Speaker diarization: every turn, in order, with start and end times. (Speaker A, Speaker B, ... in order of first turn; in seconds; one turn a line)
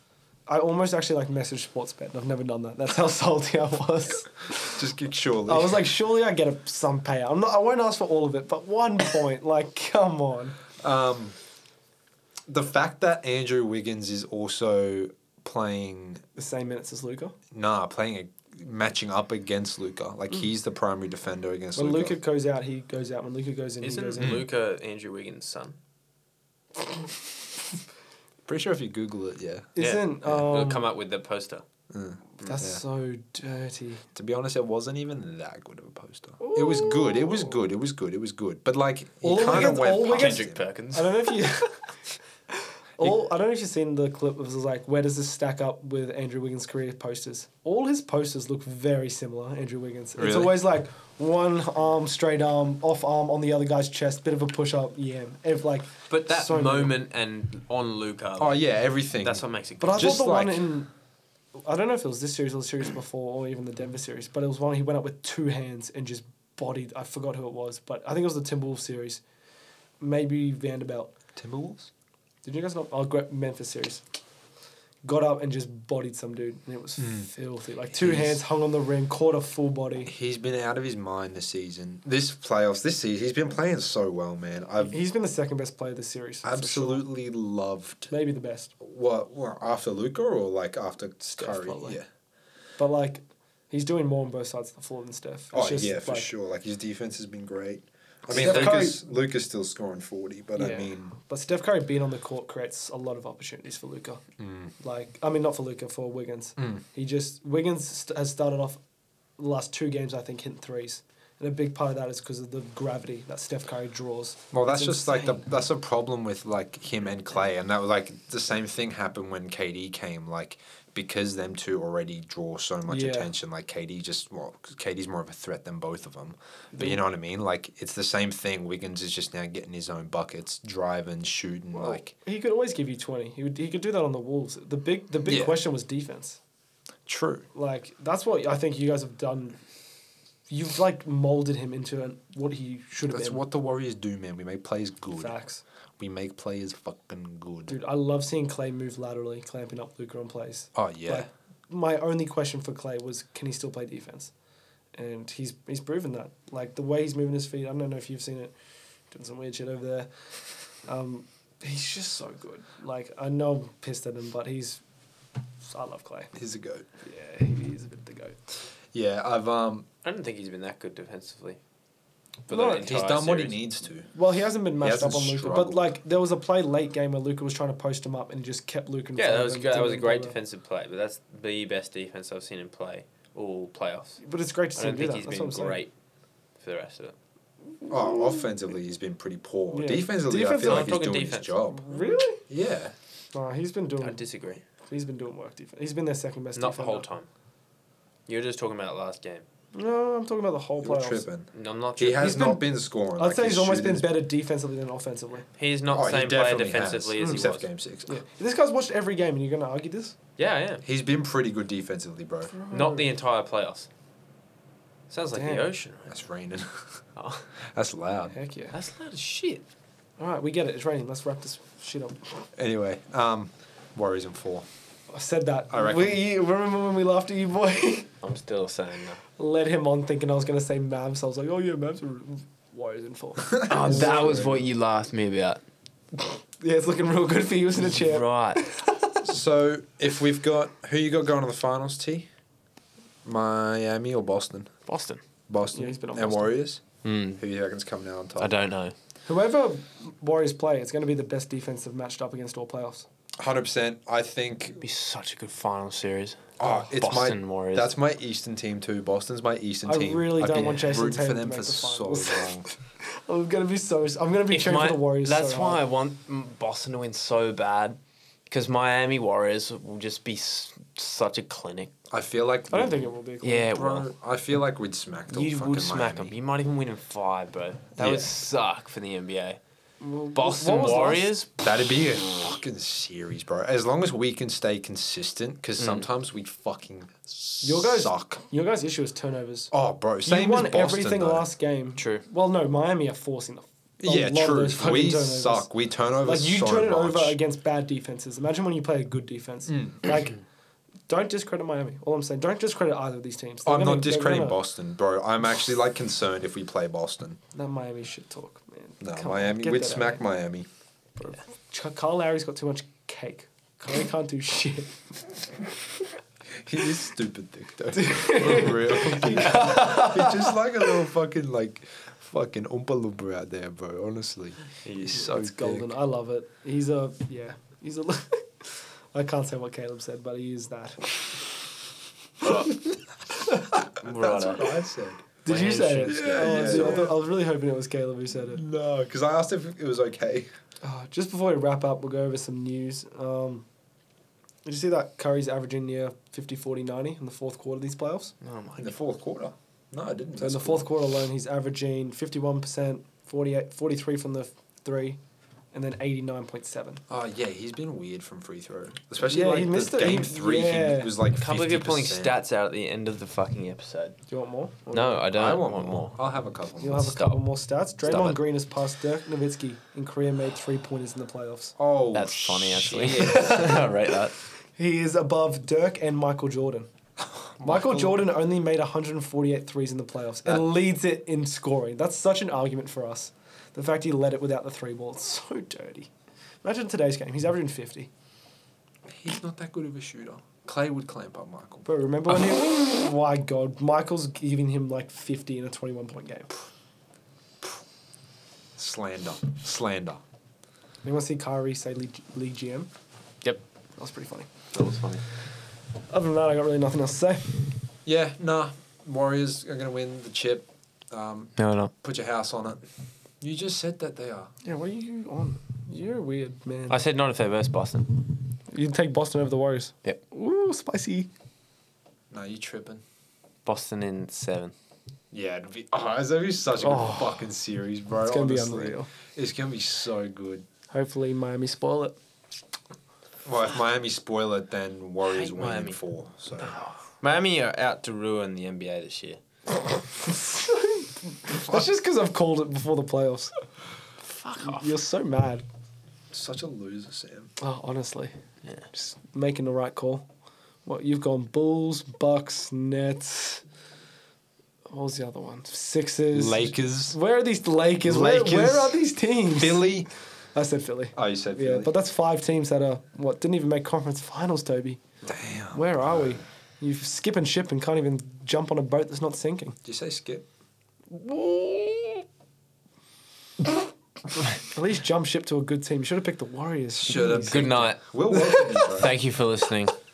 Speaker A: 0.5-4.8
Speaker B: 4.8-5.9
Speaker A: 5.5-10.6
Speaker B: 10.8-11.3
Speaker B: 12.5-16.2
Speaker A: 16.3-17.3
Speaker B: 17.5-22.2
Speaker A: 21.8-24.3
Speaker C: 23.8-25.8
Speaker B: 24.2-24.5
Speaker B: 28.5-29.7
Speaker A: 29.8-30.9
Speaker C: 29.8-31.6
Speaker B: 31.9-32.8
Speaker A: 32.4-34.0
Speaker B: 34.1-40.6
Speaker A: 36.4-37.6
Speaker A: 39.2-41.9
Speaker C: 40.0-41.4
Speaker A: 43.0-56.9
Speaker B: 50.2-50.6
Speaker C: 56.1-60.2
Speaker B: 58.4-60.7
Speaker A: 59.8-60.9
Speaker A: 61.5-69.2
Speaker A: 70.0-71.1
Speaker B: 71.3-71.9
Speaker A: 72.4-74.0
Speaker A: 75.0-80.1
Speaker B: 77.0-77.3
Speaker B: 77.9-78.4
Speaker B: 80.0-85.0
Speaker A: 84.8-87.0
Speaker B: 86.4-88.1
Speaker A: 88.1-88.7
Speaker B: 88.8-92.0
Speaker A: 91.2-92.0
Speaker A: 92.8-96.3
Speaker B: 95.5-101.1
Speaker A: 98.3-99.0
Speaker C: 98.3-98.8
Speaker A: 100.5-104.2
Speaker B: 104.4-104.7
Speaker A: 104.8-108.8
Speaker A: 109.4-115.5
Speaker B: 114.5-132.1
Speaker A: 122.9-123.3
Speaker A: 126.7-127.0
Speaker A: 131.8-136.4
Speaker B: 135.3-135.6
Speaker B: 137.1-137.4
Speaker A: 137.5-139.6
Speaker A: 140.5-143.4
Speaker B: 143.1-145.3
Speaker A: 145.2-145.6
Speaker B: 146.0-147.8
Speaker A: 147.7-154.3
Speaker B: 150.8-151.3
Speaker A: 154.9-158.5
Speaker A: 159.1-160.1
Speaker A: 160.8-164.8
Speaker A: 165.6-166.3
Speaker B: 166.3-166.8
Speaker A: 167.0-168.4
Speaker B: 168.9-169.8
Speaker C: 170.0-171.6
Speaker C: 172.5-173.6
Speaker A: 172.5-172.9
Speaker B: 172.8-174.1
Speaker A: 174.1-180.4
Speaker B: 174.8-175.9
Speaker C: 179.2-184.2
Speaker A: 184.2-185.8
Speaker C: 184.8-185.9
Speaker C: 186.6-187.1
Speaker B: 187.9-191.9
Speaker A: 187.9-188.4
Speaker A: 189.7-191.0
Speaker C: 190.6-192.0
Speaker A: 191.7-192.4
Speaker B: 192.4-192.9
Speaker A: 193.3-194.2
Speaker C: 194.0-194.6
Speaker A: 194.8-197.1
Speaker C: 196.5-197.3
Speaker C: 198.3-199.4
Speaker A: 199.7-201.3
Speaker B: 200.8-204.2
Speaker C: 201.5-202.3
Speaker A: 202.2-205.5
Speaker C: 205.6-207.7
Speaker B: 205.9-208.2
Speaker A: 207.2-207.5
Speaker A: 208.1-210.2
Speaker C: 210.4-210.8
Speaker B: 210.8-212.6
Speaker A: 212.5-213.1
Speaker C: 212.7-213.9
Speaker C: 215.1-216.1
Speaker A: 215.3-215.7
Speaker B: 216.1-216.8
Speaker C: 217.2-217.4
Speaker B: 217.7-218.3
Speaker A: 218.3-218.8
Speaker C: 218.7-219.6
Speaker A: 220.2-222.4
Speaker B: 222.6-224.7
Speaker A: 225.1-228.1
Speaker B: 225.7-226.2
Speaker C: 228.2-229.2
Speaker A: 229.4-234.7
Speaker B: 233.6-234.6
Speaker C: 233.6-235.6
Speaker A: 236.6-239.2
Speaker C: 237.8-238.6
Speaker B: 239.2-242.3
Speaker B: 243.2-244.7
Speaker C: 244.9-245.2
Speaker B: 245.5-248.6
Speaker A: 245.7-246.6
Speaker C: 247.0-247.4
Speaker C: 248.4-248.9
Speaker A: 249.2-253.1
Speaker B: 253.4-254.8
Speaker C: 254.8-257.9
Speaker B: 256.6-262.6
Speaker A: 259.8-265.8
Speaker C: 264.5-271.9
Speaker B: 272.1-273.1
Speaker A: 272.7-273.7
Speaker C: 273.4-274.1
Speaker B: 273.6-276.3
Speaker C: 275.3-279.6
Speaker B: 278.0-278.3
Speaker A: 280.0-281.3
Speaker C: 280.3-281.5
Speaker B: 281.6-288.5
Speaker C: 285.8-286.0
Speaker A: 287.6-289.7
Speaker B: 289.7-291.5
Speaker A: 290.2-295.7
Speaker C: 292.0-292.2
Speaker B: 294.0-297.4
Speaker A: 296.2-300.4
Speaker B: 299.7-299.9
Speaker A: 301.1-304.6
Speaker B: 303.6-307.4
Speaker A: 307.5-310.2
Speaker B: 309.0-310.7
Speaker A: 311.2-315.4
Speaker B: 316.6-325.9
Speaker A: 318.0-320.6
Speaker C: 324.8-325.2
Speaker A: 325.1-331.7
Speaker A: 332.4-333.8
Speaker C: 334.0-334.8
Speaker B: 334.0-335.2
Speaker A: 335.4-338.6
Speaker C: 335.5-337.1
Speaker B: 336.0-337.2
Speaker B: 338.5-340.5
Speaker A: 340.8-343.6
Speaker A: 344.6-348.3
Speaker C: 348.4-349.0
Speaker B: 348.8-351.0
Speaker A: 350.4-355.2
Speaker A: 355.7-357.0
Speaker B: 357.1-362.4
Speaker A: 359.2-361.1
Speaker C: 361.4-364.2
Speaker A: 364.3-365.3
Speaker C: 364.9-367.4
Speaker B: 365.3-367.0
Speaker A: 366.8-371.8
Speaker C: 368.0-368.4
Speaker B: 371.8-373.8
Speaker C: 372.1-374.3
Speaker A: 373.2-373.9
Speaker A: 374.7-376.9
Speaker B: 377.3-378.3
Speaker A: 377.6-386.1
Speaker A: 386.6-388.1
Speaker B: 389.1-391.9
Speaker A: 391.8-396.5
Speaker B: 398.8-400.2
Speaker A: 401.0-402.9
Speaker A: 404.0-404.5
Speaker C: 404.7-405.2
Speaker A: 406.1-407.8
Speaker B: 408.1-412.8
Speaker C: 411.6-411.9
Speaker B: 413.4-414.5
Speaker A: 414.6-417.0
Speaker C: 416.9-418.3
Speaker A: 418.7-421.3
Speaker B: 422.3-423.0
Speaker C: 423.6-424.7
Speaker B: 425.3-430.6
Speaker A: 426.8-427.5
Speaker A: 428.2-429.1
Speaker A: 430.9-432.1
Speaker B: 433.4-436.8
Speaker C: 435.2-436.0
Speaker C: 436.6-439.4
Speaker A: 440.1-443.5
Speaker C: 444.2-445.0
Speaker A: 444.6-445.6
Speaker B: 446.3-447.5
Speaker A: 447.6-448.3
Speaker A: 448.9-450.3
Speaker A: 450.8-453.6
Speaker A: 454.9-459.9
Speaker B: 456.3-457.2
Speaker B: 458.0-460.1
Speaker A: 460.5-465.0
Speaker B: 461.1-461.9
Speaker B: 465.2-466.4
Speaker A: 465.7-469.8
Speaker B: 469.8-470.5
Speaker A: 471.1-472.2
Speaker A: 474.5-479.0
Speaker B: 476.9-479.2
Speaker C: 477.5-478.0
Speaker C: 478.8-479.9